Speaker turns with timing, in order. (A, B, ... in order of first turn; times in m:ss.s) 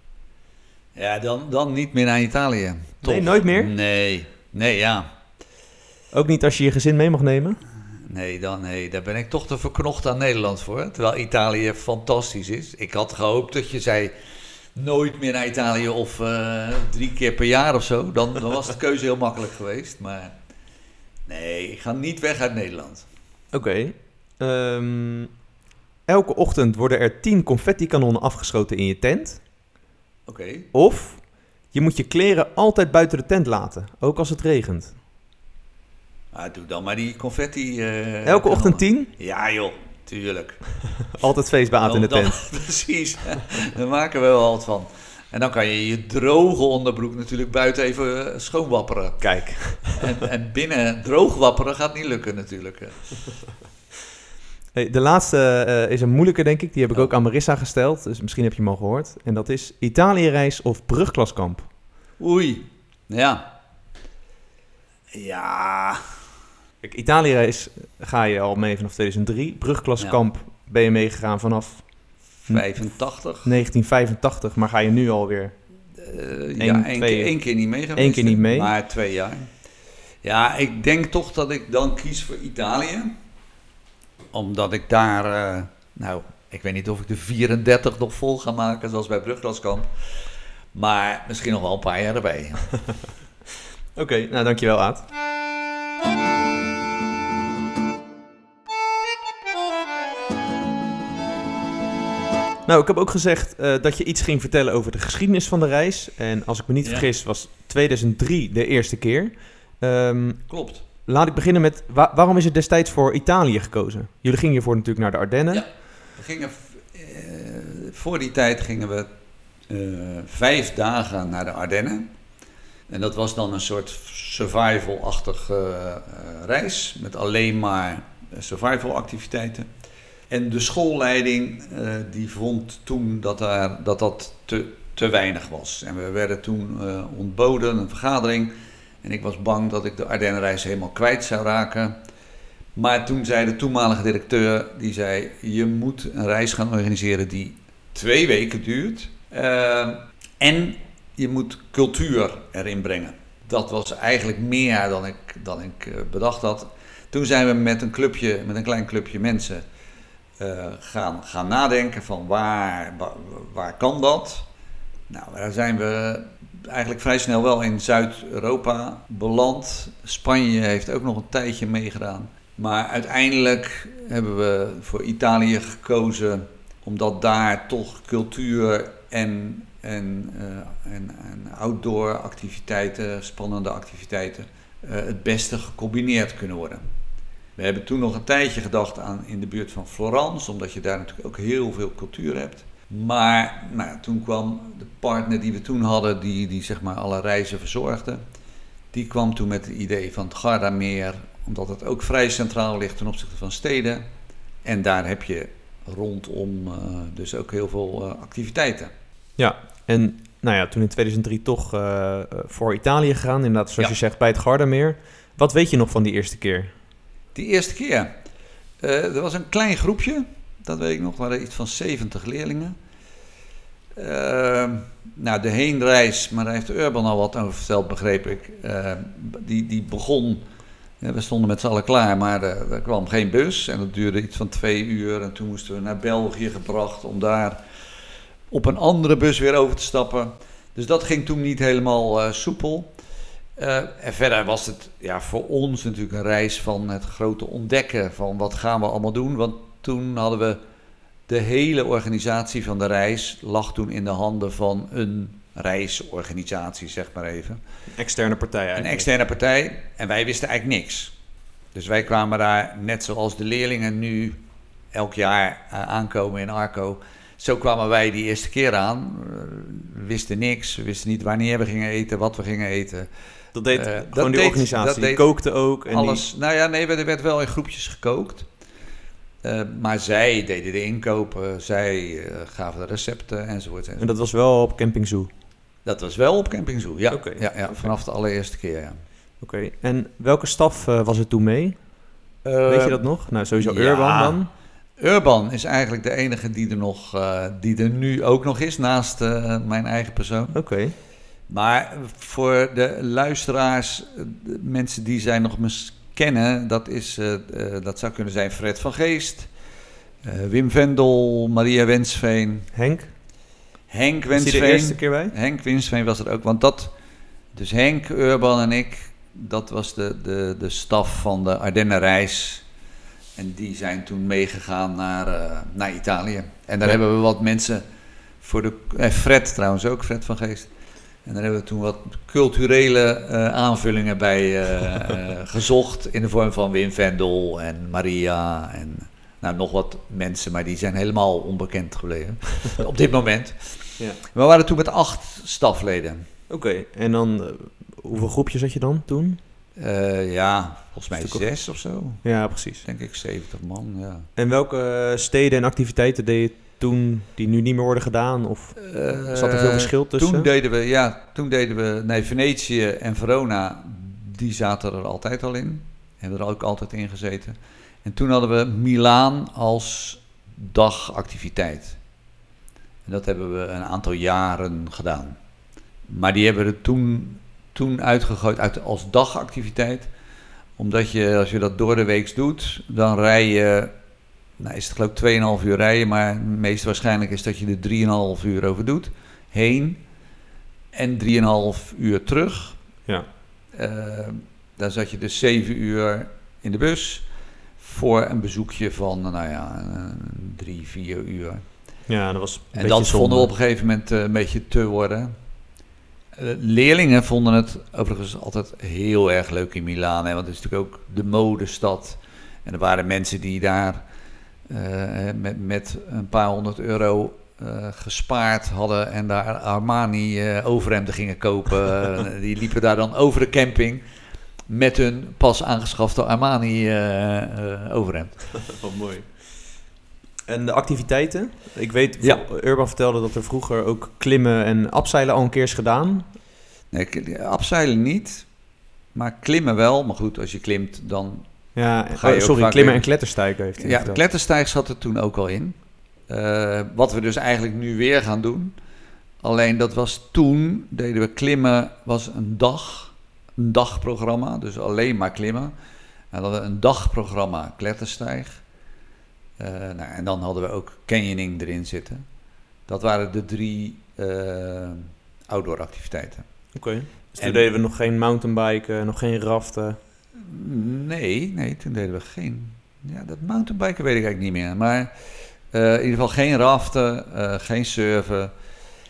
0:01.0-0:05.1 A
0:03.0-0:03.7 B
0:06.1-0:07.6 B
0:08.1-0:14.1 A
0:14.8-0:20.3 A
0:21.3-0:23.1 A
0:23.5-0:25.3 B
0:26.1-0:29.4 B
0:30.3-0:30.7 A
0:30.7-0:35.0 B
0:36.3-0:40.6 A
0:38.2-0:39.1 B
0:41.2-0:42.4 B
0:41.8-0:53.2 A
0:49.2-0:50.0 B
0:54.7-1:01.7 B
1:02.2-1:03.5 A
1:05.1-1:06.0 A
1:06.8-1:11.8 B
1:12.5-1:13.5 A
1:12.5-1:15.6 B
1:16.0-1:19.5 A
1:16.6-1:17.3 B
1:18.0-1:18.7 B
1:20.2-1:23.2 A
1:24.3-1:29.9 A
1:30.7-1:32.7 A
1:34.0-1:35.0 B
1:42.7-1:50.5 B
1:50.5-1:50.8 A
1:51.0-1:55.6 B
1:55.5-1:59.1 A
1:59.7-2:02.1 A
2:02.9-2:09.7 A
2:10.3-2:18.5 A
2:19.0-2:22.0 A
2:22.8-2:39.6 A
2:40.4-2:44.5 A
2:45.1-3:06.8 A
3:07.6-3:18.2 A
3:18.9-3:24.0 A
3:24.6-3:28.9 A
3:29.4-3:36.7 B
3:37.4-3:38.1 A
3:38.8-3:42.8 A
3:44.0-3:50.4 A
3:51.0-3:57.6 A
3:58.5-4:02.9 A
4:03.6-4:10.6 A
4:11.3-4:17.6 A
4:17.9-4:19.1 B
4:18.8-4:21.1 A
4:21.7-4:24.4 A
4:24.9-4:33.1 A
4:33.5-4:36.2 B
4:33.7-4:35.3 A
4:35.9-4:38.5 A
4:39.4-4:44.1 A
4:44.0-4:45.3 B
4:45.9-4:49.0 A
4:47.1-4:47.9 B
4:49.4-4:51.8 B
4:52.4-4:54.4 A
4:52.7-4:54.5 B
4:55.0-5:00.6 A
5:00.5-5:01.0 B
5:01.5-5:09.5 A
5:10.2-5:12.7 A
5:12.7-5:13.1 B
5:13.9-5:16.9 A
5:14.4-5:15.3 B
5:17.5-5:22.6 A
5:23.4-5:27.8 A
5:28.4-5:30.7 A
5:31.3-5:46.3 A
5:46.5-5:49.4 B
5:49.8-5:52.3 A
5:51.1-5:51.4 B
5:52.2-5:52.8 B
5:52.8-5:54.3 A
5:54.4-6:00.5 B
5:58.8-6:12.0 A
6:13.1-6:15.4 A
6:16.1-6:20.1 A
6:20.8-6:23.9 A
6:24.6-6:30.0 A
6:30.9-6:32.8 A
6:33.7-6:37.2 A
6:37.8-6:41.6 A
6:42.1-6:43.5 B
6:42.7-6:45.3 A
6:46.4-6:54.0 A
6:54.7-7:04.0 A
7:04.7-7:08.6 A
7:08.7-7:09.7 B
7:10.5-7:16.3 B
7:16.9-7:18.5 A
7:19.2-7:21.5 A
7:21.8-7:24.2 B
7:22.1-7:23.1 A
7:23.8-7:25.8 A
7:26.3-7:28.8 A
7:29.4-7:35.7 A
7:36.3-7:38.6 A
7:39.6-7:42.2 A
7:42.9-7:46.4 A
7:46.7-7:50.0 B
7:47.4-7:47.7 A
7:50.4-7:55.1 A
7:55.7-7:58.5 A